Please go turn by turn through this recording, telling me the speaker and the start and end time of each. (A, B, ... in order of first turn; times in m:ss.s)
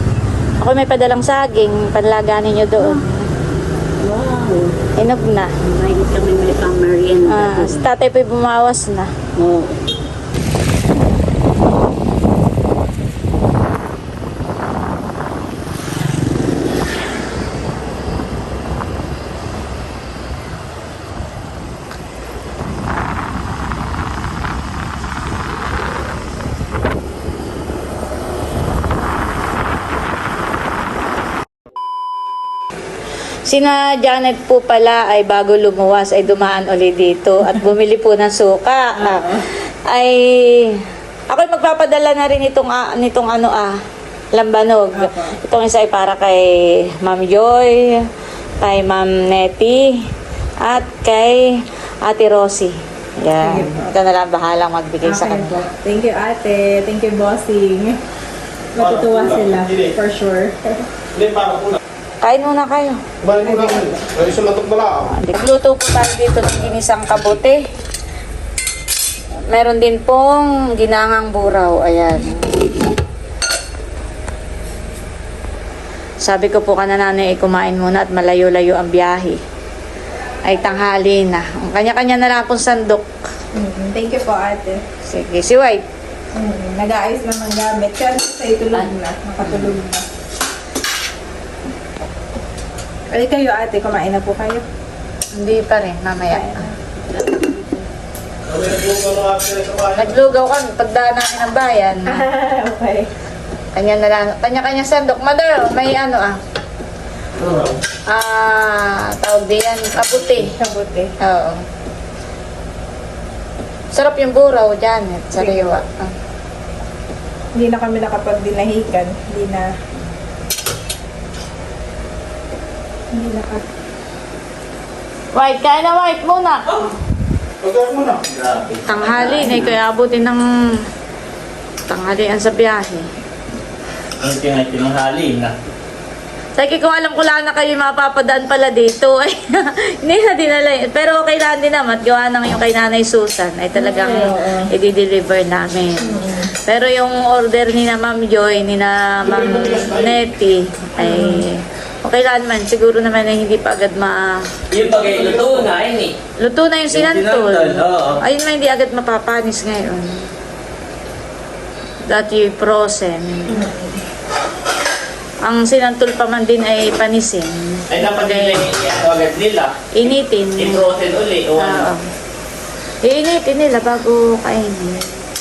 0:00.6-0:03.3 A
0:02.8-0:03.0 B
0:04.0-0:04.8 B
0:05.0-0:05.5 A
0:05.6-0:07.9 B
0:07.2-0:09.1 A
0:09.4-0:09.8 B
0:33.5-0:43.8 A
0:39.0-0:39.4 C
0:44.4-0:48.0 A
0:44.9-0:45.3 C
0:48.6-0:50.0 A
0:50.6-0:55.6 A
0:53.4-0:53.9 C
0:55.0-0:58.0 C
0:58.7-1:00.8 C
0:58.8-1:00.0 D
1:01.1-1:01.8 D
1:02.2-1:03.0 A
1:03.2-1:05.1 D
1:03.4-1:03.8 C
1:05.1-1:07.6 A
1:09.5-1:12.5 A
1:16.2-1:19.4 A
1:20.4-1:23.1 A
1:23.6-1:24.8 C
1:25.0-1:25.8 A
1:26.4-1:30.0 C
1:33.1-1:34.6 C
1:35.4-1:36.6 A
1:36.3-1:36.7 C
1:37.1-1:37.8 B
1:38.5-1:40.1 D
1:40.0-1:42.2 A
1:42.1-1:43.1 C
1:43.8-1:46.4 A
1:47.4-1:47.8 D
1:48.1-1:50.5 A
1:50.4-1:51.1 C
1:51.2-1:51.6 A
1:53.9-1:56.1 A
1:55.4-1:55.8 C
1:57.6-1:59.7 C
2:03.1-2:03.6 C
2:05.3-2:06.7 A
2:07.6-2:08.2 D
2:08.3-2:09.7 E
2:08.9-2:10.4 A
2:11.9-2:13.0 A
2:14.2-2:15.5 E
2:16.6-2:34.4 A
2:23.7-2:24.7 C
2:26.0-2:26.5 C
2:29.2-2:30.2 D
2:31.0-2:31.4 C
2:34.7-2:36.2 E
2:34.8-2:35.7 D
2:36.4-2:40.2 A
2:36.9-2:38.2 E
2:42.0-2:43.7 A
2:43.6-2:43.9 C
2:45.4-2:48.6 A
2:47.9-2:51.9 E
2:49.9-2:50.8 A
2:51.6-2:52.0 A
2:53.0-2:55.1 A